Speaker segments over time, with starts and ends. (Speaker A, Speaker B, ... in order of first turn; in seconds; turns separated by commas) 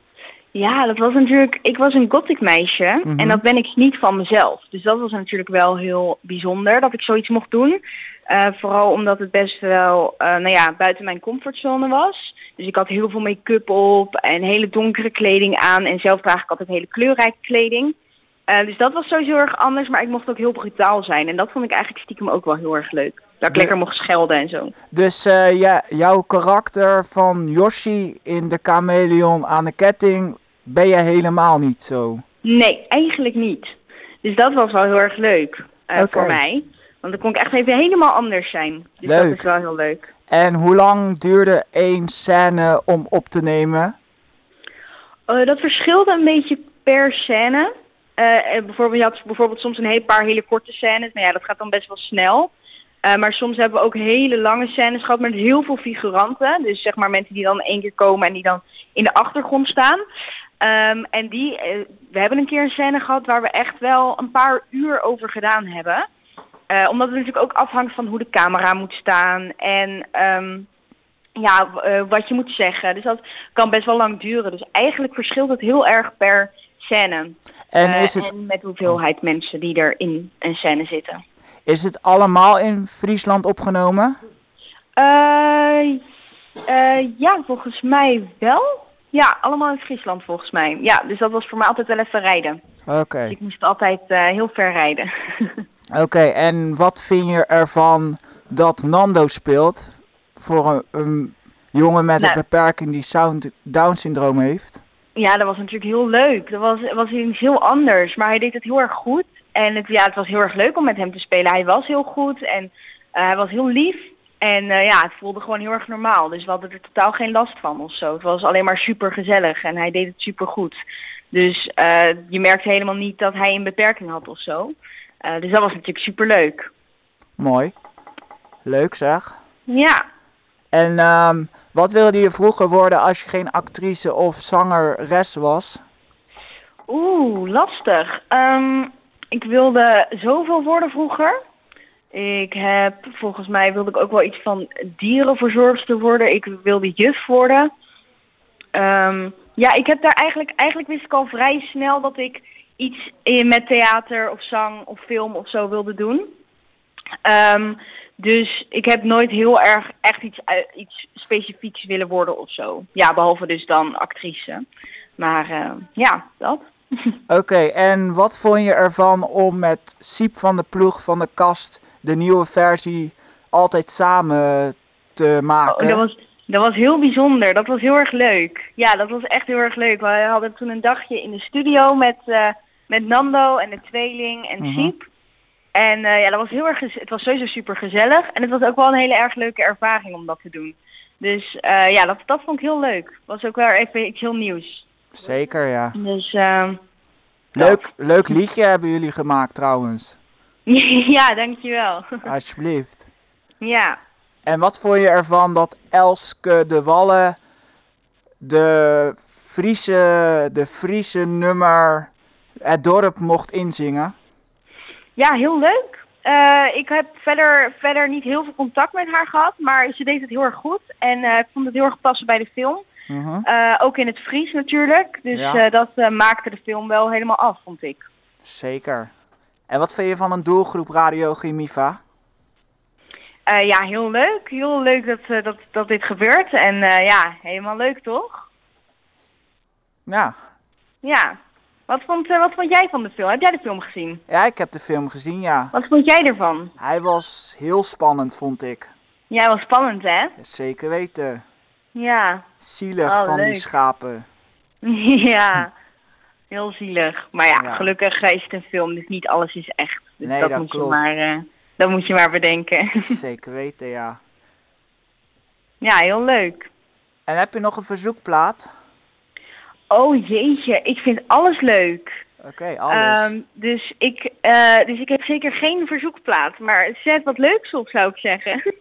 Speaker A: 0.5-17.9, Speaker B: 3.0-3.4, Speaker A: 18.5-24.7, Speaker B: 24.9-32.2, Speaker A: 32.4-33.7, Speaker A: 34.2-40.1, Speaker B: 36.0-36.4, Speaker B: 39.0-39.5, Speaker B: 40.3-43.9, Speaker A: 45.3-52.5, Speaker A: 53.0-60.0, Speaker A: 60.6-66.0, Speaker A: 66.7-70.7, Speaker A: 71.4-81.2, Speaker B: 77.7-78.3, Speaker B: 81.7-84.2, Speaker A: 85.0-86.0, Speaker A: 86.7-92.6, Speaker B: 92.9-93.4, Speaker A: 93.3-95.6, Speaker B: 95.9-104.8, Speaker A: 105.2-120.8, Speaker A: 121.3-126.7, Speaker B: 127.4-127.7, Speaker B: 128.6-129.3, Speaker A: 129.7-130.0, Speaker B: 130.7-135.8, Speaker A: 136.9-141.3, Speaker A: 142.1-147.7, Speaker A: 148.7-156.3, Speaker A: 157.2-164.6, Speaker A: 165.2-167.2, Speaker B: 167.3-176.0, Speaker A: 175.7-185.0, Speaker B: 184.6-184.9, Speaker A: 185.7-194.8, Speaker B: 195.1-195.9, Speaker A: 195.9-196.8, Speaker B: 197.5-200.2, Speaker A: 197.6-197.8, Speaker A: 200.7-202.2, Speaker B: 202.2-203.1, Speaker A: 203.6-204.0, Speaker B: 204.4-207.4, Speaker B: 208.4-212.1, Speaker B: 212.6-214.1, Speaker A: 215.2-222.8, Speaker B: 223.1-223.4, Speaker A: 223.4-228.0, Speaker B: 225.3-225.6, Speaker B: 228.4-229.1, Speaker B: 229.7-232.0, Speaker A: 233.5-238.4, Speaker B: 240.1-240.3, Speaker A: 241.0-244.2, Speaker B: 244.3-245.7, Speaker A: 245.7-246.7, Speaker B: 246.8-248.9, Speaker A: 249.3-250.3, Speaker B: 250.4-251.4, Speaker A: 251.9-252.5, Speaker B: 252.6-254.2, Speaker A: 253.0-253.7, Speaker A: 254.8-255.7, Speaker A: 256.5-263.1, Speaker B: 257.6-257.9, Speaker B: 260.2-261.1, Speaker B: 263.1-264.2, Speaker A: 265.8-266.7, Speaker B: 267.3-268.7, Speaker A: 269.9-272.2, Speaker B: 272.4-273.3, Speaker A: 272.9-278.6